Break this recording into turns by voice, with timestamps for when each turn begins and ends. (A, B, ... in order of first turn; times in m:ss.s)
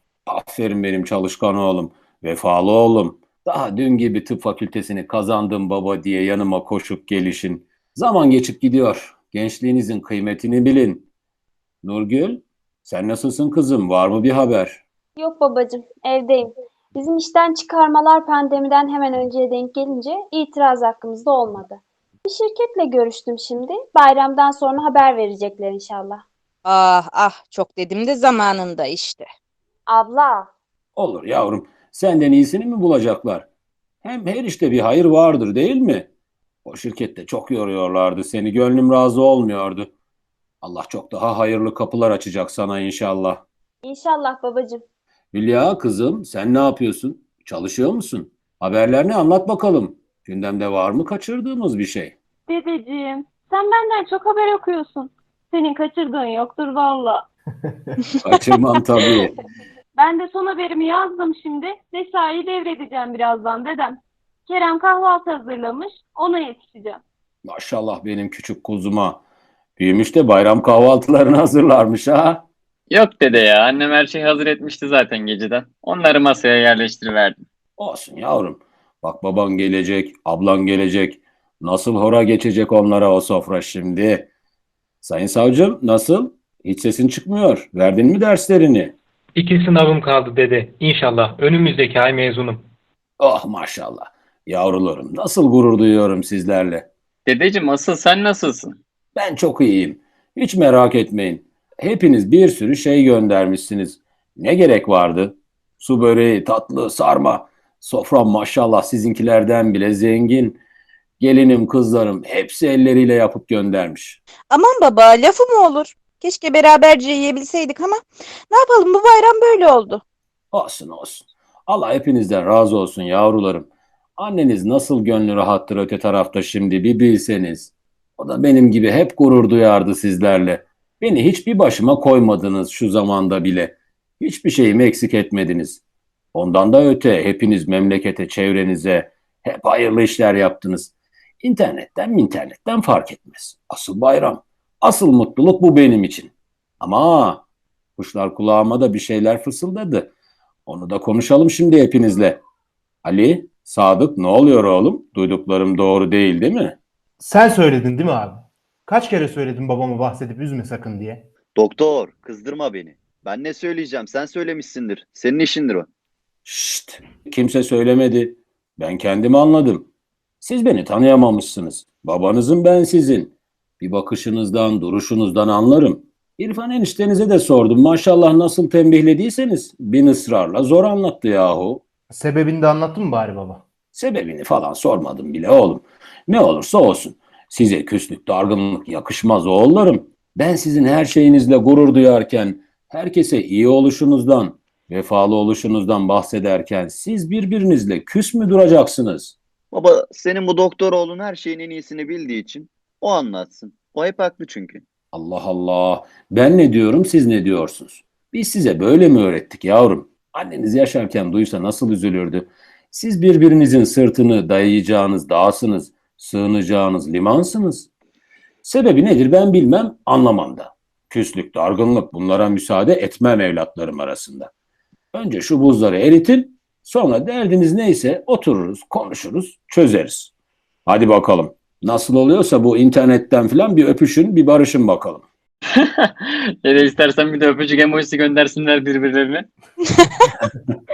0:00.3-0:11.1 A
0:11.8-0:14.8 A
0:15.2-0:26.2 B
0:26.6-0:29.3 C
0:29.9-0:30.5 B
0:31.0-0:33.5 A
0:34.0-0:36.1 A
0:36.6-0:39.9 A
0:40.6-0:43.4 A
0:43.8-0:44.8 B
0:45.3-0:52.1 A
0:52.5-0:57.2 D
0:57.7-0:58.0 E
0:58.2-0:59.3 A
1:00.0-1:07.0 D
1:07.4-1:09.2 A
1:09.8-1:12.4 A
1:12.9-1:17.4 F
1:17.8-1:24.3 A
1:25.0-1:29.0 A
1:29.4-1:32.6 G
1:33.2-1:36.9 A
1:37.2-1:38.8 F
1:39.2-1:50.6 A
1:51.2-1:54.2 A
1:54.5-1:58.0 C
1:58.5-2:00.0 C
2:00.5-2:15.8 A
2:16.3-2:27.4 A
2:28.0-2:30.1 A
2:30.7-2:32.4 A
2:33.0-2:36.8 A
2:37.2-2:41.3 E
2:41.6-2:45.9 H
2:46.4-2:49.9 A
2:50.4-3:01.8 A
3:02.1-3:03.6 E
3:03.9-3:19.3 A
3:19.7-3:24.8 H
3:25.1-3:37.9 A
3:38.6-3:44.5 A
3:45.1-3:50.3 A
3:50.9-3:55.2 A
3:55.8-3:56.1 F
3:56.6-3:59.5 F